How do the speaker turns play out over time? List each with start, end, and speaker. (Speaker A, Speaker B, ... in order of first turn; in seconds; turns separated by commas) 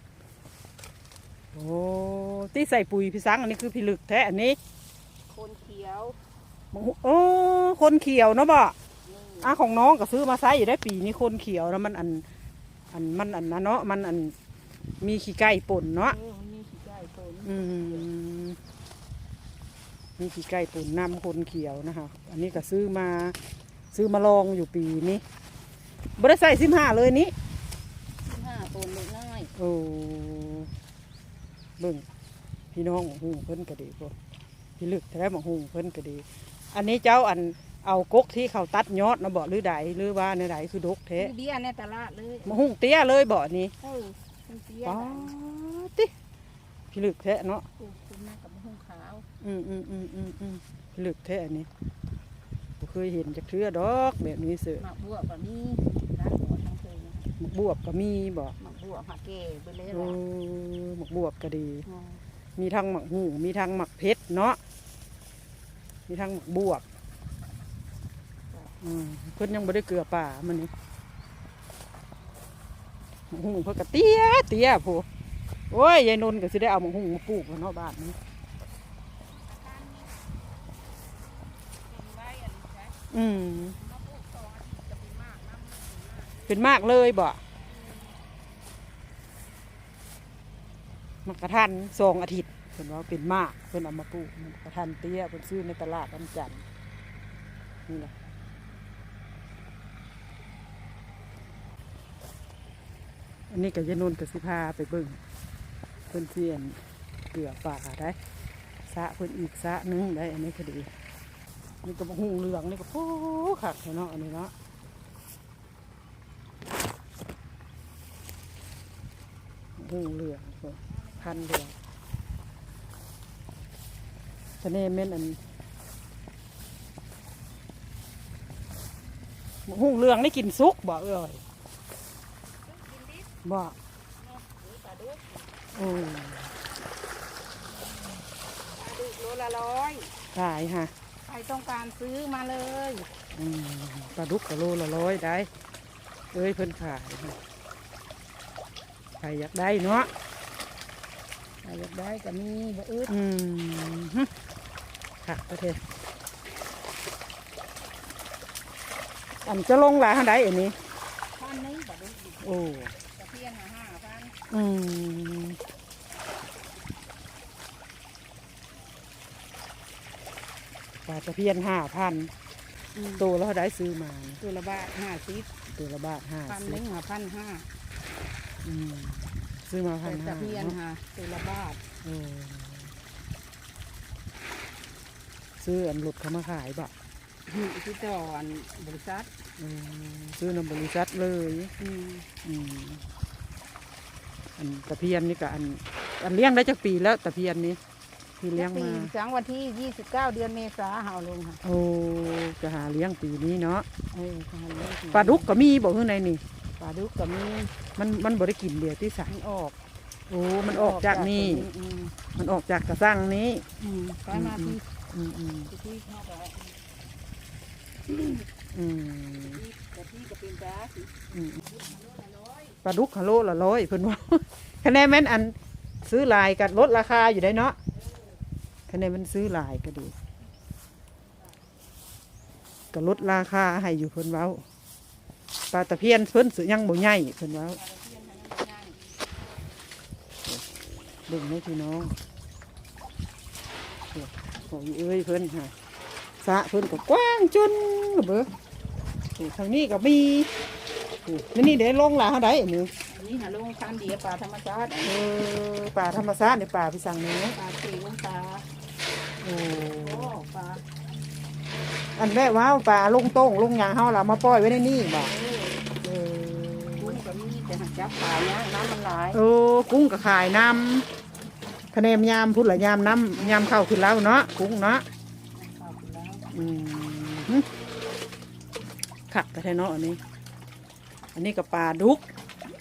Speaker A: 1.5-4.6, Speaker B: 5.3-6.2, Speaker A: 6.7-8.7, Speaker B: 9.0-9.5, Speaker A: 9.4-12.2, Speaker A: 12.9-14.3, Speaker A: 15.0-16.1, Speaker B: 16.0-18.1, Speaker A: 17.4-18.6, Speaker A: 20.2-23.4, Speaker A: 23.9-25.2, Speaker A: 26.2-27.3, Speaker B: 28.2-29.5, Speaker A: 29.5-30.7, Speaker A: 31.8-32.0, Speaker A: 32.7-34.1, Speaker A: 34.8-41.3, Speaker B: 41.1-42.5, Speaker A: 42.4-43.7, Speaker B: 43.8-45.3, Speaker A: 44.8-46.1, Speaker A: 46.9-47.6, Speaker B: 47.8-49.3, Speaker A: 49.4-51.7, Speaker A: 52.8-54.8, Speaker B: 54.8-57.3, Speaker A: 57.4-58.5, Speaker B: 58.6-60.2, Speaker A: 59.9-61.9, Speaker B: 61.8-62.2, Speaker A: 62.6-64.6, Speaker A: 66.1-66.8, Speaker A: 68.8-70.7, Speaker A: 73.3-75.0, Speaker A: 75.7-78.2, Speaker B: 79.4-83.0, Speaker A: 83.1-83.8, Speaker B: 83.8-86.6, Speaker A: 86.5-87.4, Speaker B: 87.7-88.1, Speaker A: 91.2-96.6, Speaker A: 97.9-98.1, Speaker A: 103.5-105.2, Speaker A: 106.1-106.8, Speaker A: 107.3-108.2, Speaker A: 108.9-110.9, Speaker A: 111.8-114.5, Speaker A: 119.8-121.7, Speaker A: 124.6-125.4, Speaker A: 129.7-131.4, Speaker B: 132.7-133.2, Speaker A: 133.4-133.7, Speaker B: 134.2-135.6, Speaker A: 135.7-136.5, Speaker B: 138.7-140.1, Speaker A: 140.3-140.9, Speaker B: 141.2-143.1, Speaker A: 143.3-145.5, Speaker A: 146.3-147.4, Speaker A: 149.2-150.1, Speaker B: 151.6-153.1, Speaker A: 153.1-154.3, Speaker A: 155.2-155.8, Speaker A: 159.4-160.8, Speaker B: 161.3-164.3, Speaker A: 162.4-162.9, Speaker A: 164.5-165.6, Speaker A: 171.1-172.3, Speaker B: 172.9-173.3, Speaker A: 173.2-174.4, Speaker B: 174.4-175.5, Speaker A: 175.7-176.8, Speaker B: 176.5-177.7, Speaker A: 178.6-180.8, Speaker B: 180.0-181.8, Speaker A: 182.0-182.9, Speaker A: 185.6-186.9, Speaker B: 187.4-189.3, Speaker A: 189.6-191.7, Speaker B: 191.8-192.3, Speaker A: 192.4-193.0, Speaker A: 194.6-197.8, Speaker A: 198.4-199.1, Speaker B: 198.5-201.6, Speaker A: 201.6-203.8, Speaker B: 204.1-205.5, Speaker A: 205.1-206.4, Speaker B: 206.8-207.7, Speaker A: 207.9-209.3, Speaker B: 209.3-209.7, Speaker A: 210.3-211.7, Speaker B: 210.7-212.2, Speaker A: 212.3-213.6, Speaker B: 213.8-214.8, Speaker A: 214.3-215.7, Speaker B: 215.7-216.8, Speaker B: 218.1-218.4, Speaker A: 218.7-219.6, Speaker B: 219.5-222.8, Speaker A: 221.3-221.6, Speaker A: 222.8-227.8, Speaker A: 228.9-230.1, Speaker A: 232.9-234.6, Speaker A: 235.7-237.8, Speaker B: 237.7-239.2, Speaker A: 241.3-242.1, Speaker A: 244.1-245.7, Speaker A: 246.4-248.5, Speaker A: 249.3-250.5, Speaker A: 251.2-252.9, Speaker B: 253.1-255.2, Speaker A: 255.0-257.6, Speaker B: 257.5-258.7, Speaker A: 259.4-260.3, Speaker B: 260.0-260.8, Speaker A: 262.1-265.3, Speaker B: 265.2-265.8, Speaker A: 266.0-267.2, Speaker B: 267.0-269.4, Speaker A: 269.3-271.1, Speaker A: 271.9-275.1, Speaker B: 273.4-273.7, Speaker B: 275.5-276.5, Speaker A: 276.5-277.7, Speaker A: 279.3-280.2, Speaker A: 281.3-282.2